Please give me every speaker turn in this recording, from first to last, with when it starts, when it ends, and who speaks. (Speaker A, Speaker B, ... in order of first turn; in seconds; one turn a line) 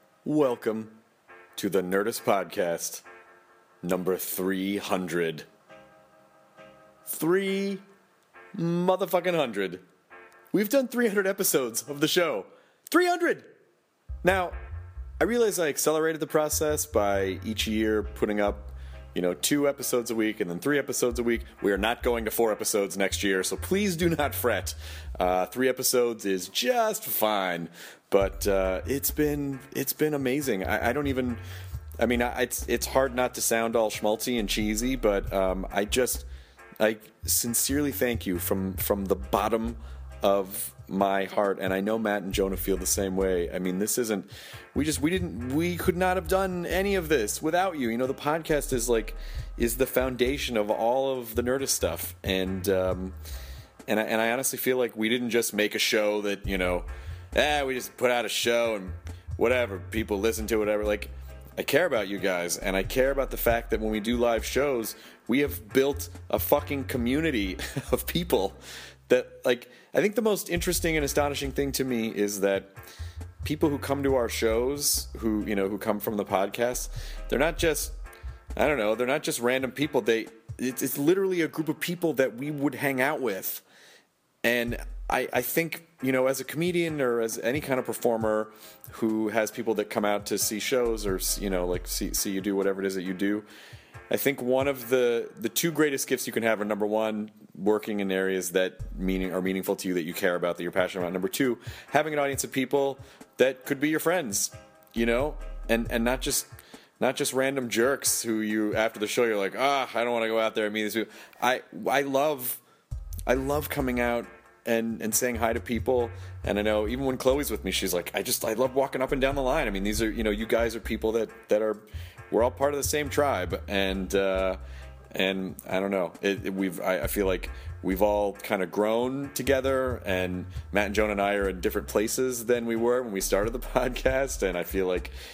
Speaker A: 0.2-0.9
Speaker A: 1.6-3.0
Speaker A: 3.8-5.5
Speaker A: 7.1-7.8
Speaker A: 8.6-9.8
Speaker A: 10.5-13.5
Speaker A: 14.2-14.6
Speaker A: 15.2-31.4
Speaker A: 32.0-36.3
Speaker A: 36.8-53.2
Speaker A: 53.9-72.7
Speaker A: 73.4-78.0
Speaker A: 78.6-83.6
Speaker A: 84.4-93.5
Speaker A: 94.1-112.6
Speaker A: 113.3-124.6
Speaker A: 125.1-135.1